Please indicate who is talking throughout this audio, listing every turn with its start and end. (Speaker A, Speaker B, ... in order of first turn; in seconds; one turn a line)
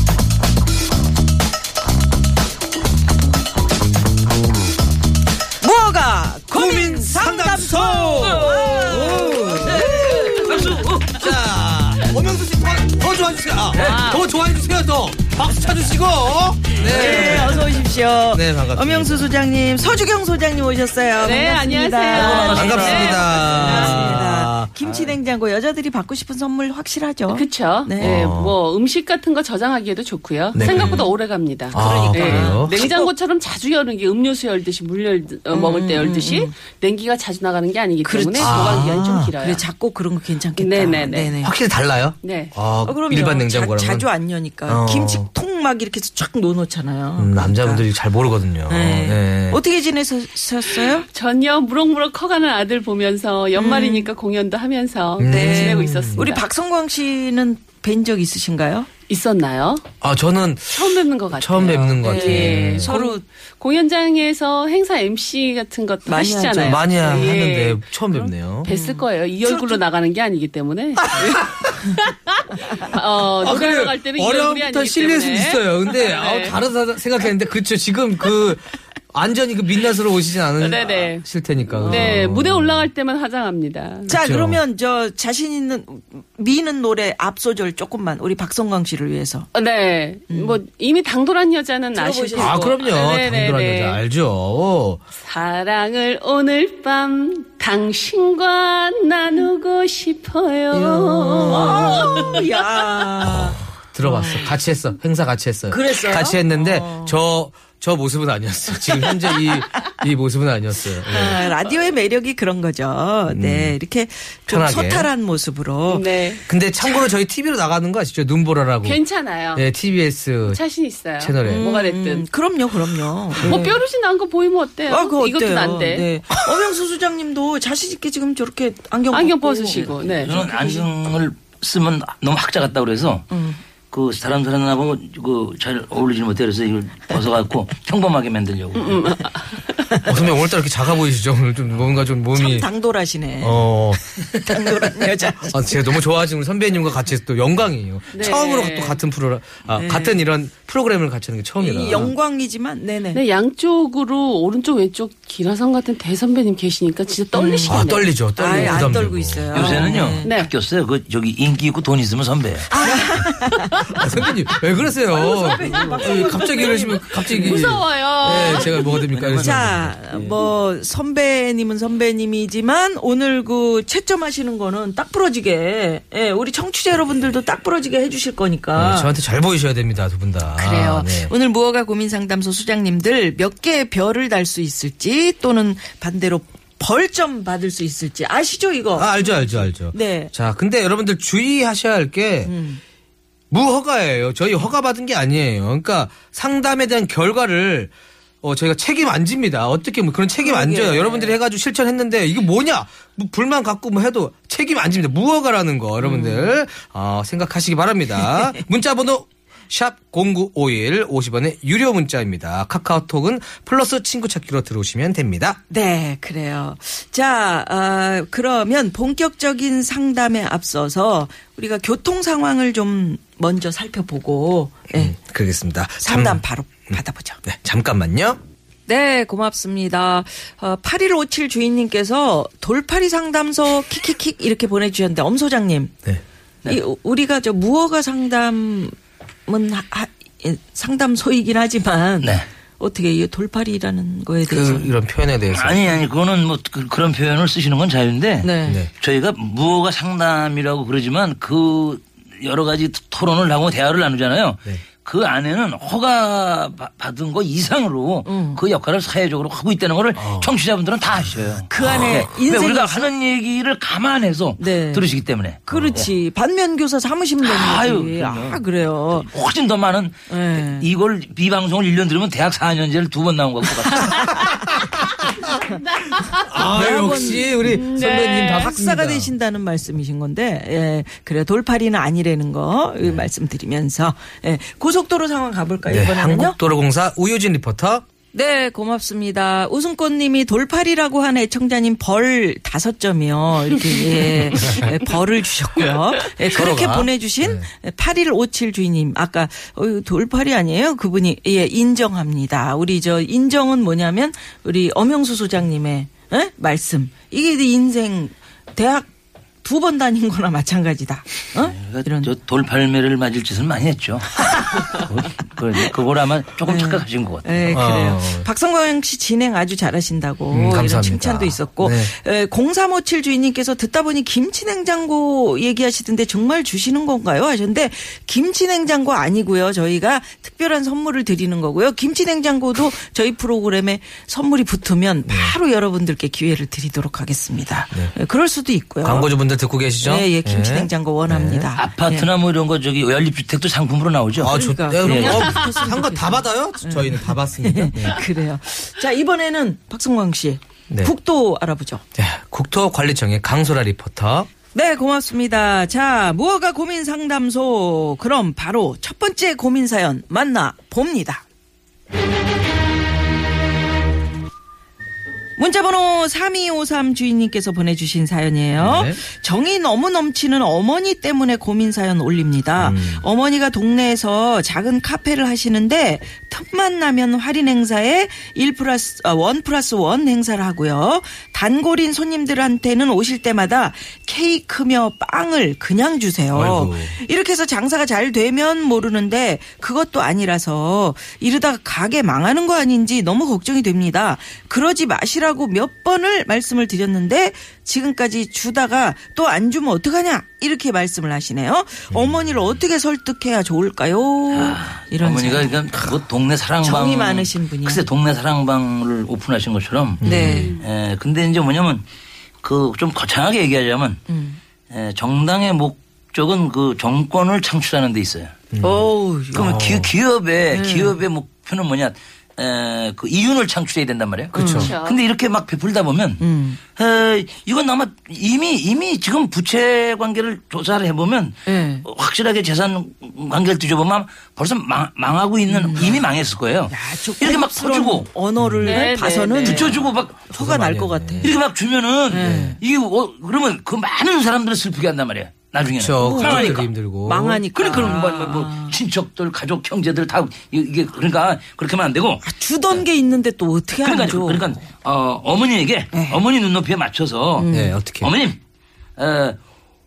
Speaker A: 5.6-10.8
Speaker B: 6.5-10.3
Speaker C: 8.2-11.3
Speaker B: 11.1-17.8
Speaker C: 13.7-14.0
Speaker D: 13.8-14.3
Speaker A: 16.8-28.2
Speaker C: 16.9-17.4
Speaker B: 18.3-19.4
Speaker D: 21.2-23.3
Speaker C: 22.1-25.2
Speaker B: 22.5-24.7
Speaker D: 27.3-39.6
Speaker B: 28.0-28.6
Speaker B: 30.5-31.1
Speaker A: 30.6-31.1
Speaker A: 31.7-33.1
Speaker B: 31.7-32.9
Speaker A: 35.5-36.5
Speaker A: 38.0-38.9
Speaker B: 38.4-39.3
Speaker A: 39.4-41.5
Speaker D: 40.5-41.3
Speaker B: 41.4-44.1
Speaker D: 42.2-42.5
Speaker A: 42.8-47.9
Speaker B: 44.6-45.3
Speaker B: 47.2-49.6
Speaker A: 48.6-51.1
Speaker D: 50.8-56.4
Speaker A: 53.6-54.1
Speaker B: 55.2-56.2
Speaker A: 55.2-58.9
Speaker D: 59.1-59.8
Speaker B: 60.0-62.9
Speaker D: 60.7-76.6
Speaker A: 61.9-63.2
Speaker A: 66.0-67.3
Speaker B: 66.6-68.7
Speaker A: 68.6-69.8
Speaker B: 71.2-71.7
Speaker B: 73.4-82.9
Speaker D: 80.6-81.2
Speaker A: 81.7-82.2
Speaker D: 81.8-84.1
Speaker B: 84.1-84.6
Speaker A: 84.1-89.5
Speaker D: 89.5-94.0
Speaker A: 90.3-90.6
Speaker A: 91.9-92.7
Speaker B: 92.4-95.0
Speaker D: 95.2-102.5
Speaker B: 101.0-102.1
Speaker A: 101.1-104.5
Speaker B: 103.2-111.5
Speaker A: 105.7-107.2
Speaker A: 111.0-116.1
Speaker B: 113.3-113.8
Speaker B: 114.5-115.1
Speaker D: 115.9-116.4
Speaker B: 116.5-119.0
Speaker D: 118.8-119.7
Speaker B: 119.5-120.6
Speaker D: 120.4-122.3
Speaker B: 121.2-121.7
Speaker A: 121.4-123.8
Speaker D: 123.4-126.1
Speaker A: 124.9-130.9
Speaker D: 129.1-130.4
Speaker C: 130.1-133.3
Speaker A: 133.3-133.6
Speaker C: 133.9-139.1
Speaker D: 138.8-139.7
Speaker B: 140.0-142.7
Speaker A: 142.3-146.0
Speaker B: 143.4-152.1
Speaker D: 148.1-149.0
Speaker A: 149.7-150.2
Speaker A: 151.6-153.2
Speaker D: 153.1-158.8
Speaker A: 157.3-160.3
Speaker B: 157.7-159.7
Speaker C: 159.5-162.9
Speaker D: 160.2-160.5
Speaker A: 162.7-164.0
Speaker B: 163.9-170.2
Speaker A: 164.8-179.1
Speaker D: 166.2-166.6
Speaker D: 167.1-169.0
Speaker C: 169.1-169.7
Speaker B: 178.8-181.3
Speaker A: 180.6-190.3
Speaker B: 188.9-192.5
Speaker A: 192.4-192.8
Speaker B: 193.5-215.6
Speaker A: 200.4-201.4
Speaker A: 206.0-206.6
Speaker A: 208.2-208.6
Speaker A: 215.7-225.1
Speaker B: 224.9-228.4
Speaker A: 226.0-227.4
Speaker A: 228.9-236.0
Speaker A: 236.7-238.9
Speaker A: 239.5-244.9
Speaker B: 244.5-246.0
Speaker C: 245.5-266.1
Speaker A: 248.4-248.8
Speaker B: 248.7-248.9
Speaker A: 258.2-258.6
Speaker B: 260.1-260.5
Speaker A: 261.7-263.1
Speaker A: 264.6-265.1
Speaker A: 265.6-269.3
Speaker B: 265.7-266.1
Speaker C: 267.4-274.3
Speaker A: 270.3-270.9
Speaker A: 273.9-274.6
Speaker D: 275.2-278.7
Speaker B: 276.3-279.3
Speaker A: 276.5-286.6
Speaker B: 285.9-288.0
Speaker A: 288.3-309.1
Speaker B: 296.4-297.7
Speaker A: 309.6-312.3
Speaker C: 311.6-317.7
Speaker A: 314.4-315.1
Speaker A: 316.6-339.3
Speaker B: 317.7-318.5
Speaker B: 320.5-322.1
Speaker B: 335.3-335.6
Speaker B: 339.0-341.7
Speaker A: 340.0-342.3
Speaker C: 341.8-345.5
Speaker B: 344.4-348.2
Speaker A: 344.5-352.0
Speaker B: 352.1-354.5
Speaker A: 354.7-361.4
Speaker A: 365.6-406.2
Speaker B: 368.8-369.2
Speaker B: 372.8-373.2
Speaker B: 386.5-387.1
Speaker B: 402.1-402.8
Speaker C: 404.5-412.0
Speaker A: 406.8-408.0
Speaker B: 410.2-410.7
Speaker A: 410.2-410.8
Speaker D: 410.5-410.8
Speaker C: 412.6-414.2
Speaker A: 414.3-414.6
Speaker C: 414.9-418.6
Speaker B: 418.7-420.1
Speaker A: 418.8-419.8
Speaker C: 419.5-438.3
Speaker A: 420.7-421.2
Speaker B: 424.5-424.9
Speaker A: 424.5-424.9
Speaker D: 424.8-425.2
Speaker A: 426.4-426.8
Speaker A: 431.6-432.1
Speaker A: 435.7-436.2
Speaker A: 436.9-441.6
Speaker B: 438.6-439.0
Speaker D: 438.8-439.9
Speaker C: 439.6-440.4
Speaker B: 440.5-441.5
Speaker C: 441.4-446.9
Speaker A: 442.3-442.8
Speaker B: 442.4-442.8
Speaker B: 445.8-447.6
Speaker A: 446.2-449.0
Speaker C: 447.7-453.1
Speaker A: 452.4-454.7
Speaker C: 454.0-458.6
Speaker A: 456.1-456.4
Speaker A: 457.6-458.0
Speaker B: 457.7-458.3
Speaker C: 459.2-459.6